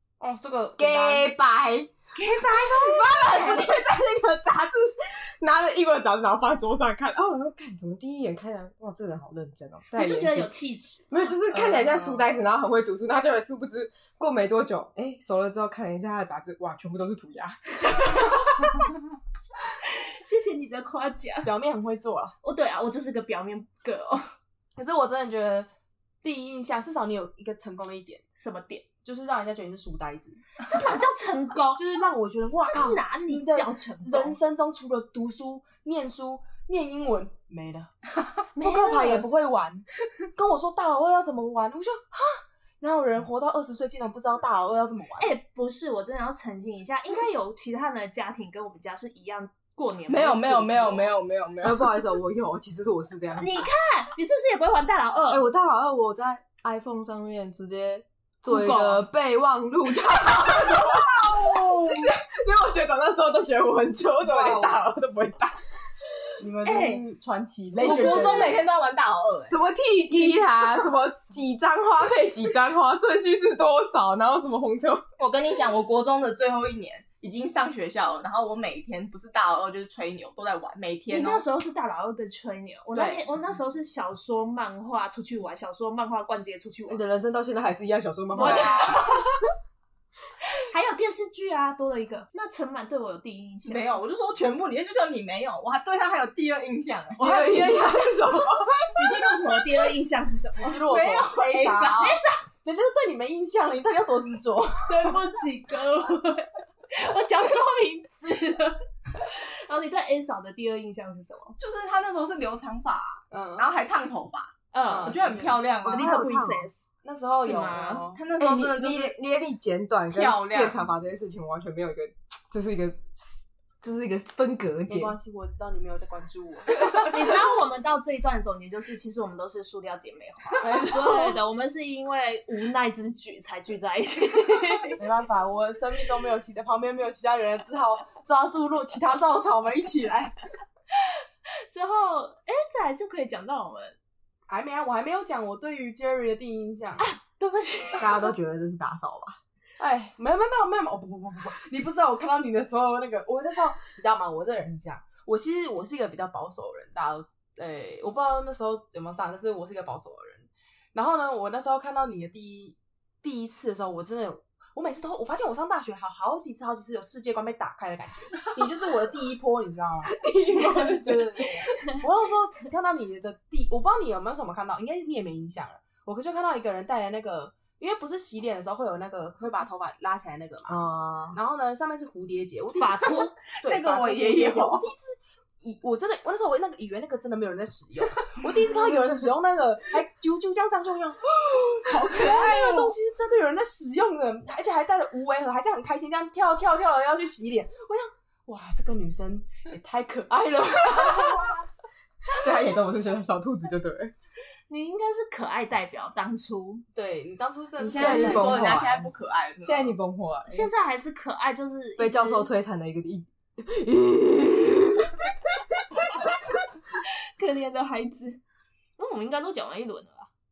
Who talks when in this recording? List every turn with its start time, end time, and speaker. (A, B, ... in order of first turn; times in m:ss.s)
0:00.2-0:01.3 A
0:00.8-0:01.9 B
0:02.1-0:03.2 C
0:02.7-0:10.5 B
0:03.2-0:03.7 D
0:09.9-0:11.3 C
0:11.1-0:18.4 B
0:17.9-0:18.6 C
0:19.8-0:21.5 C
0:21.4-0:22.3 A
0:22.4-0:24.2 C
0:24.8-0:25.7 A
0:26.2-0:28.2 A
0:28.4-0:28.8 C
0:29.0-0:30.6 A
0:30.6-0:31.8 C
0:31.8-0:45.3 A
0:32.6-0:34.4 C
0:38.5-0:39.3 C
0:45.2-0:51.1 C
0:50.1-0:52.0 D
0:51.6-0:53.7 B
0:53.4-0:55.4 C
0:55.3-1:05.6 B
0:58.5-0:59.0 C
1:01.1-1:02.0 A
1:04.3-1:04.7 A
1:06.4-1:08.6 A
1:06.6-1:07.0 C
1:07.8-1:08.6 C
1:07.8-1:09.6 D
1:09.5-1:15.0 B
1:15.2-1:21.5 D
1:21.1-1:27.0 C
1:22.9-1:23.2 D
1:26.9-1:29.3 B
1:28.3-1:29.0 C
1:28.4-1:28.9 D
1:30.7-1:34.0 C
1:33.6-1:37.5 D
1:37.2-1:38.6 A
1:37.2-1:39.0 B
1:38.9-1:40.8 C
1:40.6-1:45.2 A
1:40.8-1:42.2 D
1:42.0-1:42.4 C
1:44.9-1:51.6 C
1:51.6-1:56.2 D
1:53.3-1:53.7 A
1:54.7-1:55.2 C
1:54.8-1:55.7 A
1:55.8-1:58.0 C
1:55.9-1:56.6 B
1:57.0-1:58.2 A
1:58.1-1:59.2 D
1:58.4-2:05.1 B
2:00.1-2:00.8 D
2:04.9-2:07.2 A
2:07.1-2:15.0 C
2:10.6-2:11.4 A
2:15.0-2:20.3 A
2:21.7-2:24.0 C
2:24.5-2:27.0 A
2:27.0-2:28.3 C
2:28.0-2:29.4 B
2:29.8-3:00.8 A
2:50.2-2:51.4 B
3:00.7-3:01.4 B
3:01.3-3:21.6 A
3:02.8-3:03.3 C
3:03.6-3:04.9 D
3:12.2-3:12.9 D
3:22.4-3:24.1 B
3:24.7-3:26.8 C
3:26.9-3:28.8 A
3:27.8-3:30.0 D
3:27.9-3:29.1 B
3:29.6-3:30.7 B
3:30.5-3:32.5 C
3:32.0-3:36.3 B
3:35.9-3:36.3 C
3:37.3-3:38.4 C
3:39.0-3:40.3 C